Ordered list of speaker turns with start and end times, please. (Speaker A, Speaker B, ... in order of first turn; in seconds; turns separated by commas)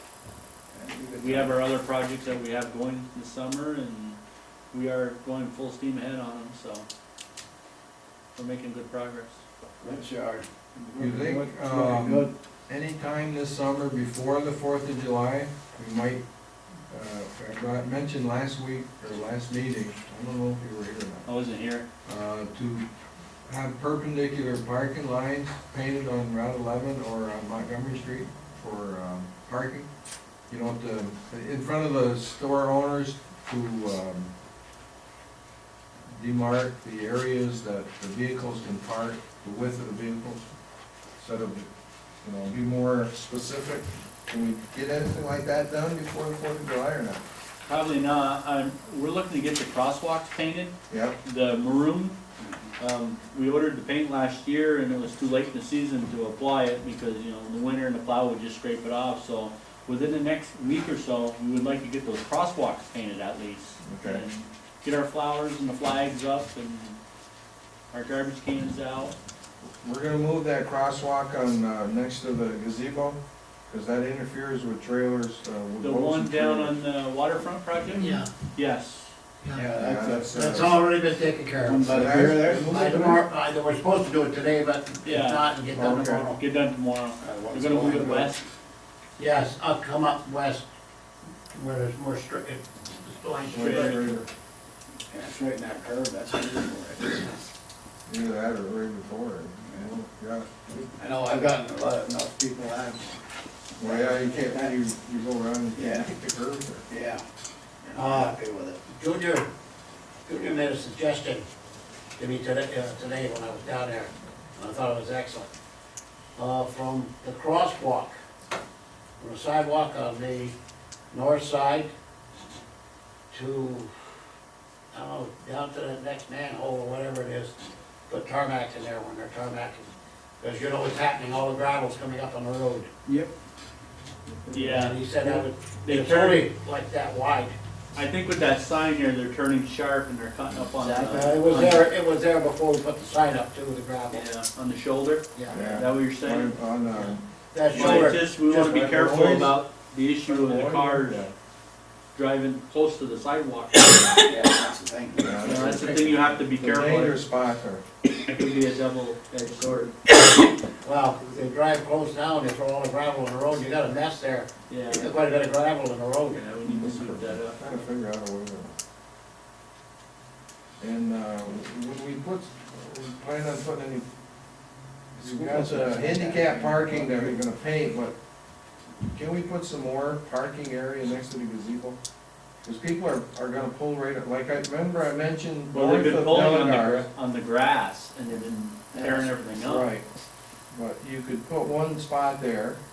Speaker A: 0.7-1.6, Speaker B: 1.2-4.2, Speaker B: 4.7-6.9, Speaker B: 8.3-9.4, Speaker A: 9.8-12.3, Speaker C: 11.0-16.2, Speaker C: 16.9-21.3, Speaker B: 21.3-21.9, Speaker C: 22.1-22.9, Speaker C: 23.5-29.9, Speaker C: 30.5-34.3, Speaker C: 36.1-40.5, Speaker C: 41.2-41.7, Speaker C: 42.2-47.2, Speaker B: 47.7-52.2, Speaker C: 50.9-51.2, Speaker B: 52.8-67.0, Speaker C: 63.8-64.2, Speaker B: 67.9-69.2, Speaker C: 69.8-76.8, Speaker B: 75.8-79.1, Speaker D: 79.5-79.8, Speaker A: 79.5-80.7, Speaker C: 79.8-80.7, Speaker D: 80.3-86.4, Speaker A: 81.6-83.1, Speaker C: 81.8-83.2, Speaker B: 85.0-88.5, Speaker C: 85.8-86.0, Speaker A: 87.2-88.3, Speaker D: 89.2-90.7, Speaker D: 91.5-94.2, Speaker C: 93.5-94.3, Speaker B: 93.5-94.0, Speaker A: 95.1-97.5, Speaker C: 98.1-100.5, Speaker A: 100.7-103.2, Speaker C: 103.8-106.8, Speaker A: 103.8-104.8, Speaker A: 105.8-106.1, Speaker A: 106.9-107.2, Speaker A: 107.8-108.8, Speaker D: 108.0-108.4, Speaker D: 108.9-109.5, Speaker D: 110.3-111.4, Speaker D: 112.2-115.5, Speaker D: 116.4-118.2, Speaker D: 119.2-120.5, Speaker D: 121.1-121.9, Speaker D: 123.3-123.9, Speaker D: 124.9-127.5, Speaker D: 128.1-129.9, Speaker D: 130.4-132.9, Speaker A: 133.1-133.3, Speaker A: 134.3-134.7, Speaker B: 134.5-136.5, Speaker D: 134.6-137.6, Speaker B: 137.9-141.9, Speaker A: 140.8-141.4, Speaker D: 141.0-144.3, Speaker B: 144.1-146.5, Speaker D: 145.3-145.6, Speaker C: 145.5-149.6, Speaker D: 146.9-148.7, Speaker B: 147.7-151.3, Speaker C: 150.3-151.3, Speaker B: 152.1-154.2, Speaker A: 154.2-155.6, Speaker C: 155.2-155.9, Speaker B: 155.4-157.2, Speaker D: 155.7-156.1, Speaker C: 156.6-157.8, Speaker B: 158.2-159.9, Speaker D: 160.8-166.5, Speaker B: 164.7-165.1, Speaker B: 166.3-167.8, Speaker C: 166.7-168.7, Speaker C: 170.8-174.1, Speaker C: 175.2-178.2, Speaker C: 179.1-182.0, Speaker C: 182.6-187.1, Speaker B: 185.7-189.9, Speaker A: 189.0-189.3, Speaker C: 189.6-190.0, Speaker C: 190.7-192.8